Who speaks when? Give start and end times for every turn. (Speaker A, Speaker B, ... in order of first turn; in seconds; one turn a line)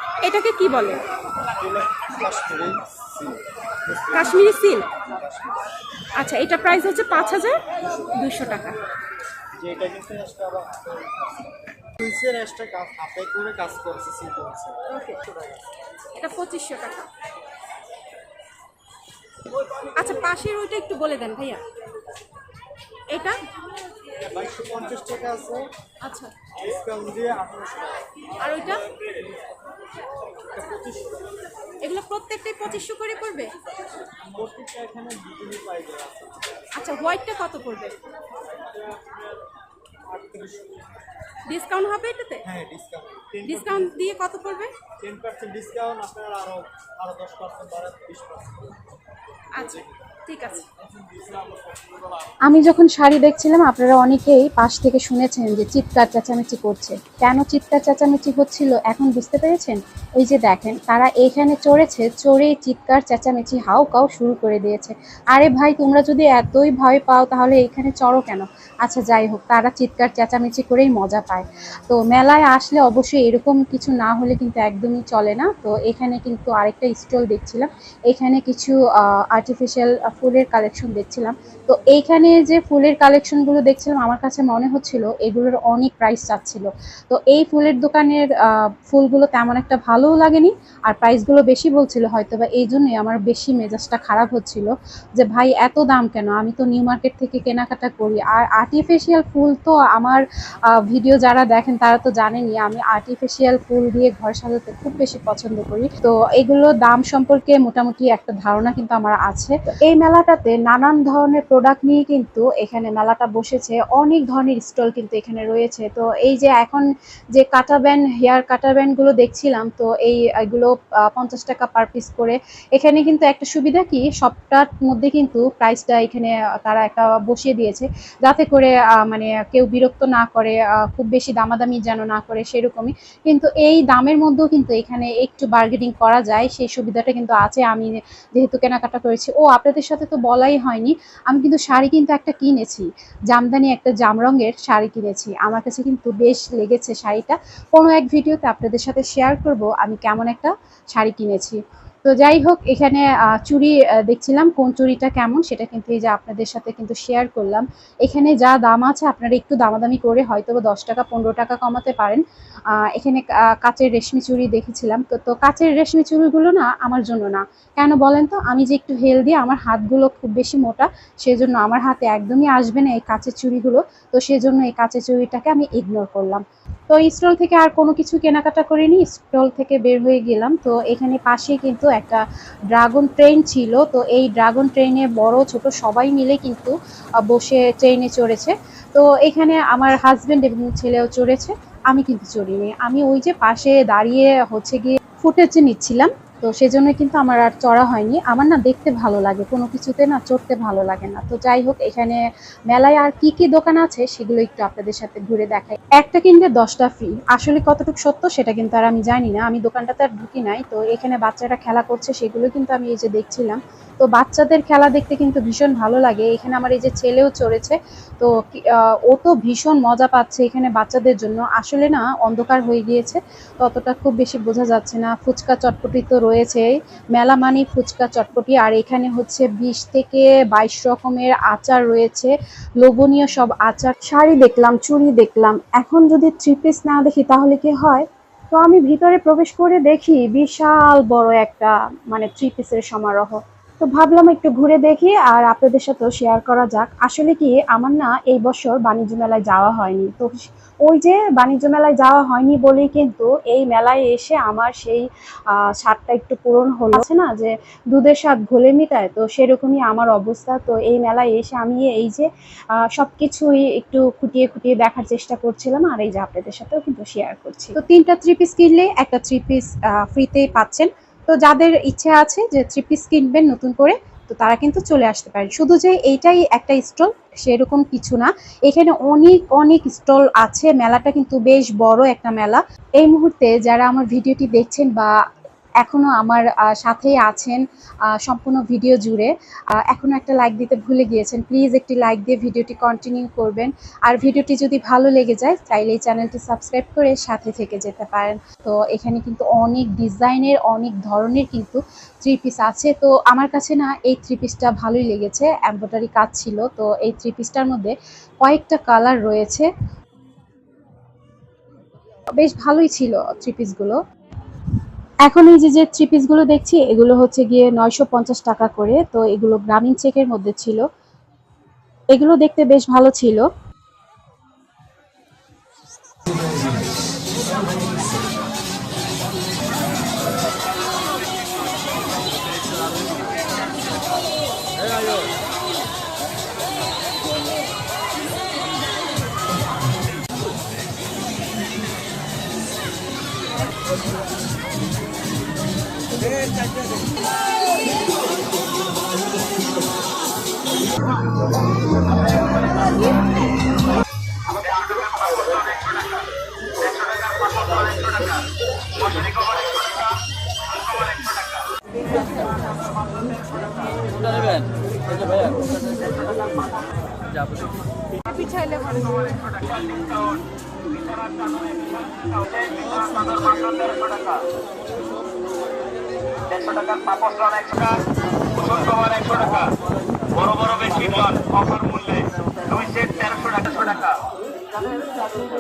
Speaker A: 0.2-1.0
Speaker B: 1.6-5.6
Speaker A: 4.1-4.9
Speaker A: 6.2-7.6
Speaker A: 8.2-8.8
Speaker B: 9.6-14.8
Speaker A: 14.9-15.2
Speaker A: 16.2-17.1
Speaker A: 19.9-21.6
Speaker A: 23.1-23.4
Speaker B: 24.2-25.7
Speaker A: 26.0-26.3
Speaker B: 26.5-28.8
Speaker A: 28.4-28.9
Speaker B: 30.5-31.4
Speaker A: 31.8-33.5
Speaker B: 34.2-36.6
Speaker A: 36.8-38.0
Speaker B: 38.4-39.5
Speaker B: 40.1-40.9
Speaker A: 41.5-42.5
Speaker B: 42.4-44.0
Speaker A: 43.5-44.7
Speaker B: 45.0-48.8
Speaker A: 49.5-50.7
Speaker B: 50.8-51.6
Speaker C: 52.5-100.2
Speaker C: 100.7-162.2
Speaker C: 162.8-285.1
Speaker C: 285.8-287.6
Speaker C: 288.2-309.7
Speaker C: 312.4-314.0
Speaker C: 315.3-320.9
Speaker C: 322.1-323.5
Speaker D: 354.5-356.3
Speaker D: 356.8-360.2
Speaker D: 360.7-361.7
Speaker D: 365.2-365.7
Speaker D: 366.3-366.7
Speaker D: 368.9-370.4
Speaker D: 371.1-372.7
Speaker B: 372.6-374.0
Speaker D: 373.6-374.4
Speaker D: 376.5-378.0
Speaker D: 378.6-379.7
Speaker D: 380.4-384.2